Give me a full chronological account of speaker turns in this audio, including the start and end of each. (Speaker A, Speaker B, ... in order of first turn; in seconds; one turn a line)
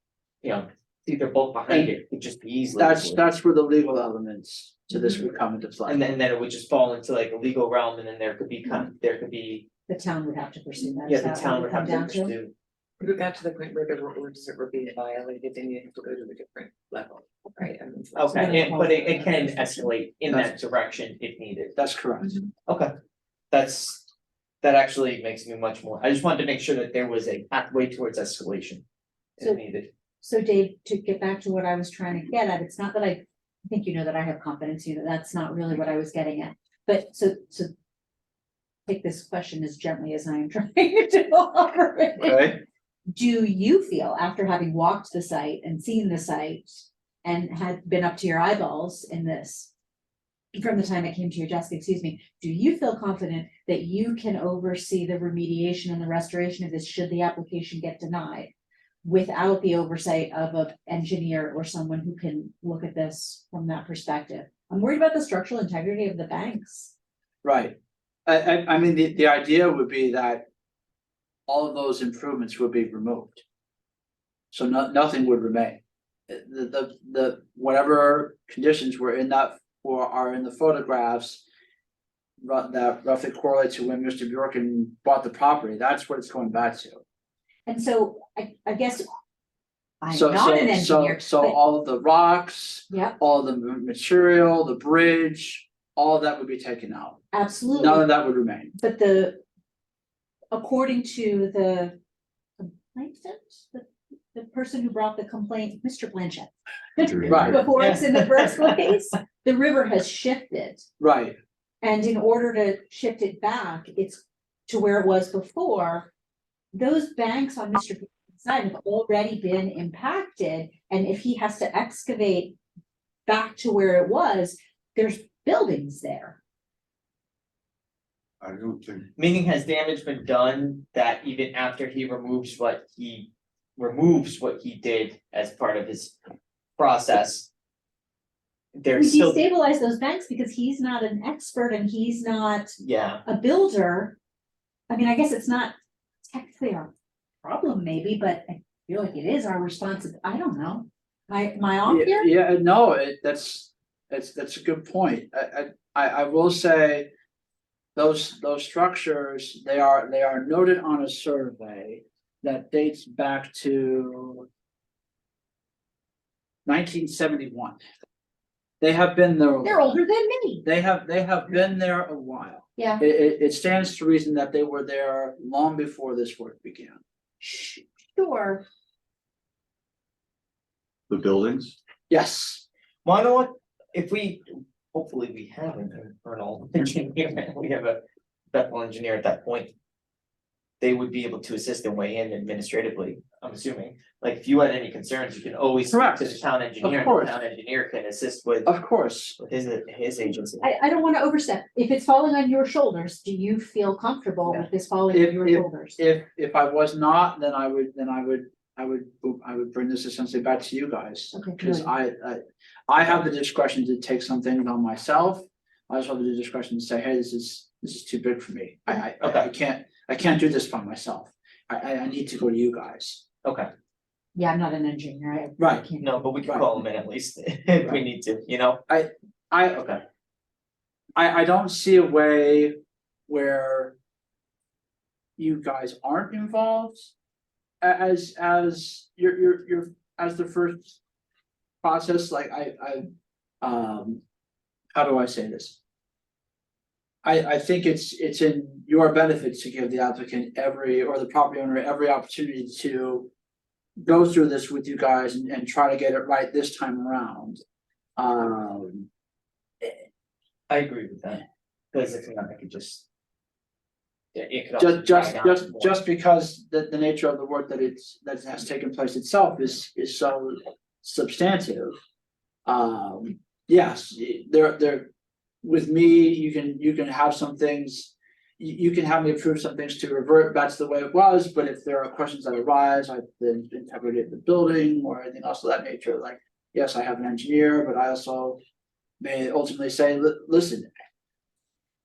Speaker A: 0.4-3.2
Speaker B: 1.7-1.9
Speaker B: 2.8-6.1
Speaker A: 5.8-9.7
Speaker C: 9.9-12.3
Speaker A: 11.0-12.5
Speaker D: 13.0-18.9
Speaker A: 18.1-21.8
Speaker C: 18.4-19.9
Speaker B: 21.8-22.4
Speaker A: 23.5-24.0
Speaker A: 24.6-28.8
Speaker A: 29.4-29.9
Speaker C: 30.2-37.7
Speaker C: 38.9-42.5
Speaker B: 42.2-42.6
Speaker C: 43.1-49.7
Speaker C: 50.5-58.5
Speaker C: 59.0-66.9
Speaker B: 67.4-67.7
Speaker B: 68.2-70.5
Speaker B: 71.5-73.4
Speaker B: 74.5-81.4
Speaker B: 82.4-87.0
Speaker C: 87.7-89.0
Speaker C: 90.0-91.6
Speaker B: 90.1-98.7
Speaker C: 92.9-93.2
Speaker C: 97.3-98.1
Speaker C: 98.8-99.4
Speaker C: 100.5-101.9
Speaker C: 102.6-110.8
Speaker E: 107.0-107.7
Speaker B: 107.3-107.6
Speaker A: 107.7-108.6
Speaker B: 111.0-111.3
Speaker C: 111.8-116.1
Speaker C: 116.7-122.6
Speaker C: 123.3-126.4
Speaker E: 128.4-129.1
Speaker A: 129.2-136.2
Speaker A: 136.8-137.5
Speaker A: 138.7-139.4
Speaker C: 138.9-142.7
Speaker A: 142.8-143.2
Speaker C: 143.2-144.2
Speaker C: 144.9-145.7
Speaker C: 146.3-146.9
Speaker C: 147.4-152.3
Speaker B: 151.8-157.1
Speaker B: 157.9-164.5
Speaker B: 166.7-167.8
Speaker B: 168.8-169.9
Speaker C: 169.6-170.6
Speaker B: 170.6-177.0
Speaker C: 172.8-173.0
Speaker C: 177.4-178.6
Speaker E: 181.1-181.8
Speaker B: 182.1-182.6
Speaker A: 183.0-188.0
Speaker A: 188.5-189.7
Speaker A: 190.8-198.7
Speaker B: 195.9-197.4
Speaker B: 198.7-199.4
Speaker A: 199.4-200.7
Speaker C: 200.6-206.0
Speaker B: 204.5-223.2
Speaker C: 211.3-211.9
Speaker A: 219.2-219.4
Speaker A: 223.4-223.7
Speaker C: 224.3-226.1
Speaker B: 225.6-225.8
Speaker A: 226.0-228.8
Speaker B: 226.4-226.7
Speaker B: 228.9-230.0
Speaker B: 231.2-232.8
Speaker B: 233.3-233.9
Speaker B: 235.4-237.1
Speaker B: 237.8-241.0
Speaker B: 241.8-243.1
Speaker B: 243.6-244.2
Speaker B: 244.9-245.8
Speaker B: 247.2-253.3
Speaker B: 254.0-257.6
Speaker B: 258.2-259.1
Speaker A: 260.7-263.0
Speaker A: 264.3-265.9
Speaker B: 264.8-272.0
Speaker B: 272.6-275.1
Speaker B: 275.6-288.6
Speaker B: 289.2-290.9